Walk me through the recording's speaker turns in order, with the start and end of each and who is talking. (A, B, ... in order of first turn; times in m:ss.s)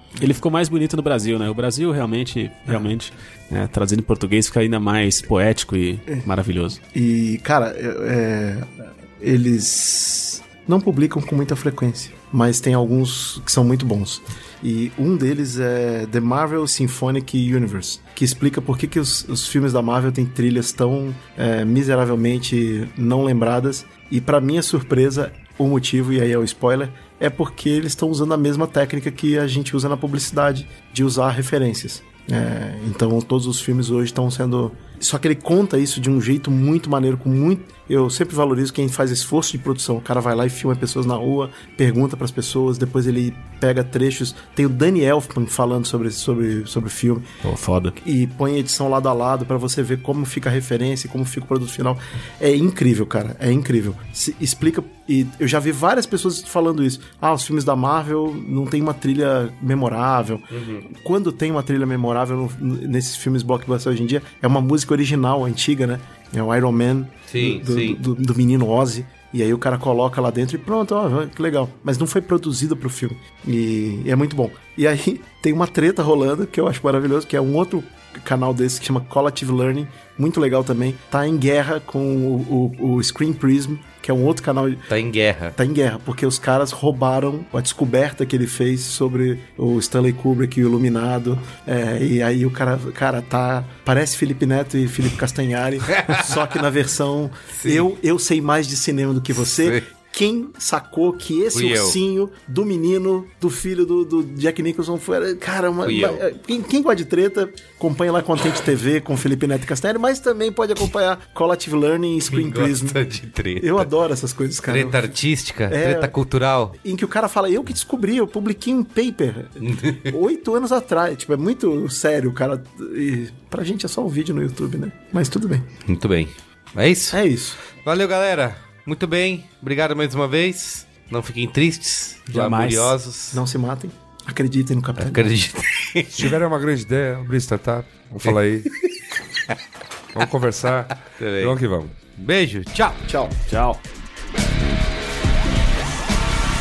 0:00.2-0:06.8 A
0:06.9-0:47.2 B
0:47.4-0:48.0 A
0:48.0-1:24.9 B
1:00.5-1:00.8 C
1:07.3-1:08.0 C
1:24.9-1:25.6 C
1:25.5-1:53.0 B
1:36.0-1:36.4 C
1:37.6-1:37.9 C
1:39.3-1:39.9 C
1:41.5-1:42.0 C
1:45.8-1:46.2 C
1:52.3-1:53.9 C
1:53.6-1:55.1 B
1:54.6-1:56.8 C
1:55.7-1:56.1 B
1:56.8-2:05.7 B
1:59.6-2:00.2 C
2:05.8-2:13.4 C
2:07.1-2:07.6 B
2:12.3-2:12.9 A
2:13.3-2:15.3 B
2:15.0-2:16.4 C
2:16.1-2:18.7 D
2:20.1-2:21.9 D
2:21.1-2:21.6 C
2:22.1-2:23.1 C
2:23.0-2:23.4 B
2:23.5-2:23.8 A